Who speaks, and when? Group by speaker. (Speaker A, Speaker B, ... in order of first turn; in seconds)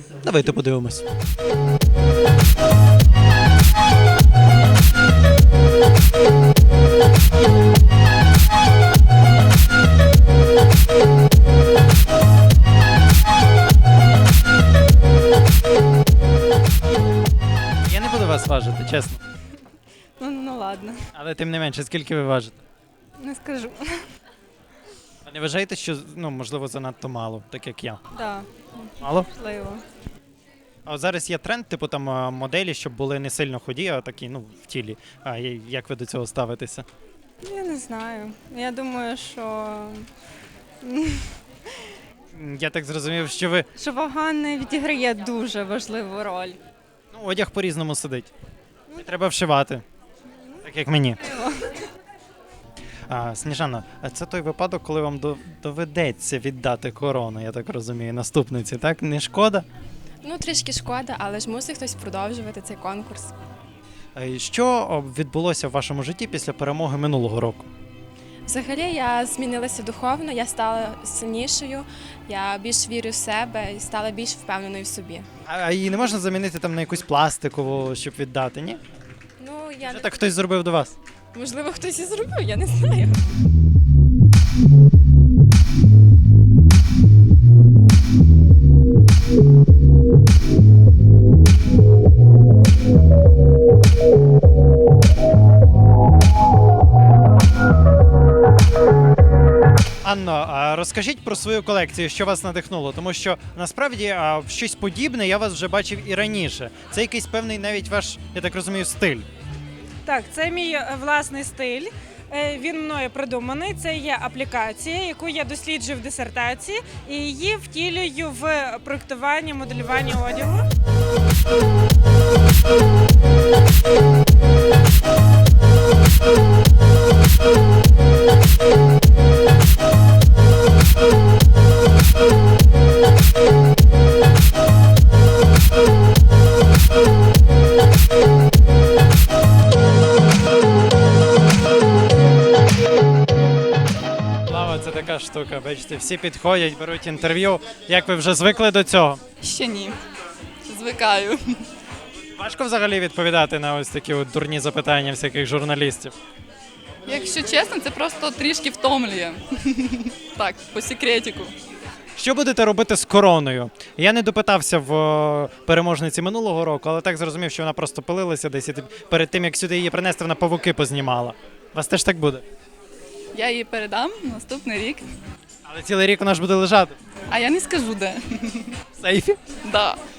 Speaker A: 0.2-1.1, 17.9-19.2, 21.1-22.6, 25.2-28.0, 29.0-29.3, 30.9-36.9, 42.3-43.7, 47.1-48.3, 49.0-49.8, 50.6-51.2, 53.1-59.7, 64.2-67.7, 75.5-78.8, 79.8-81.0, 100.0-109.3, 144.5-149.2, 152.4-156.1, 162.2-172.4, 175.7-177.0, 179.0-179.4
Speaker B: 20.2-21.0, 23.2-24.0, 28.1-29.8, 37.4-40.1, 40.8-41.3, 43.8-46.6, 51.3-51.7
Speaker C: 60.2-63.3, 68.5-75.3, 79.4-80.2, 81.3-83.2
Speaker D: 110.1-120.6
Speaker E: 149.4-150.0, 150.7-151.7, 157.1-161.5, 173.3-175.1, 177.3-178.7, 179.6-180.0